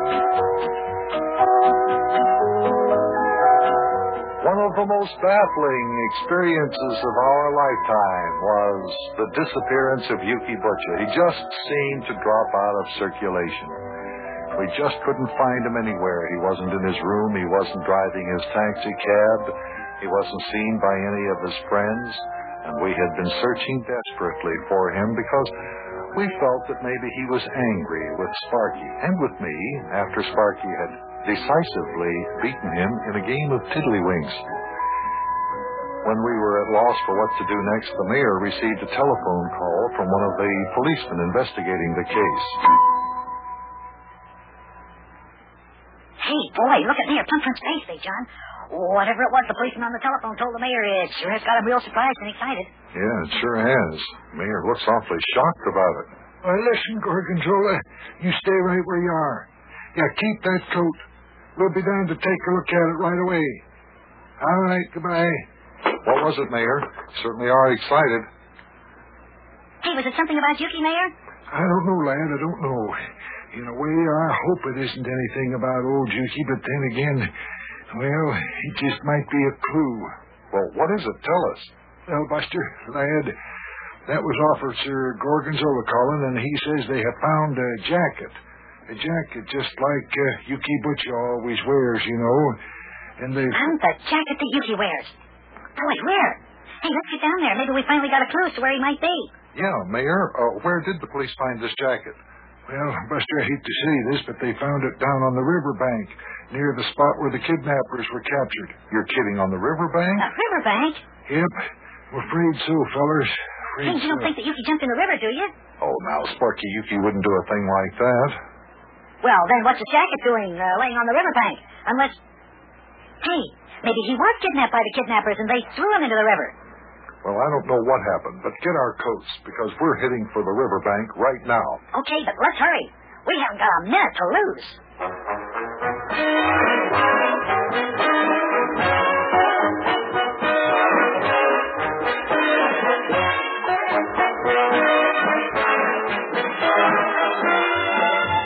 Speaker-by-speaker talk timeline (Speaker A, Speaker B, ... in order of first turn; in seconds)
Speaker A: 4.4-13.8, 14.5-25.5, 26.1-34.5, 36.0-42.6, 52.9-56.1, 66.0-68.2, 80.5-81.7, 99.5-102.2, 108.8-110.3, 115.8-118.4, 127.2-131.8
Speaker B: 46.2-52.7, 69.8-71.1, 93.5-95.2, 95.8-99.3, 110.2-111.0, 113.8-115.5, 119.2-122.2, 123.2-126.5, 131.9-134.8
Speaker C: 56.4-61.0, 61.5-63.6, 64.4-65.4, 71.5-73.0, 73.5-77.3, 77.9-80.1, 82.1-83.3, 84.1-88.3, 88.9-92.5, 93.2-93.5, 102.7-108.8, 111.3-111.5, 112.1-114.3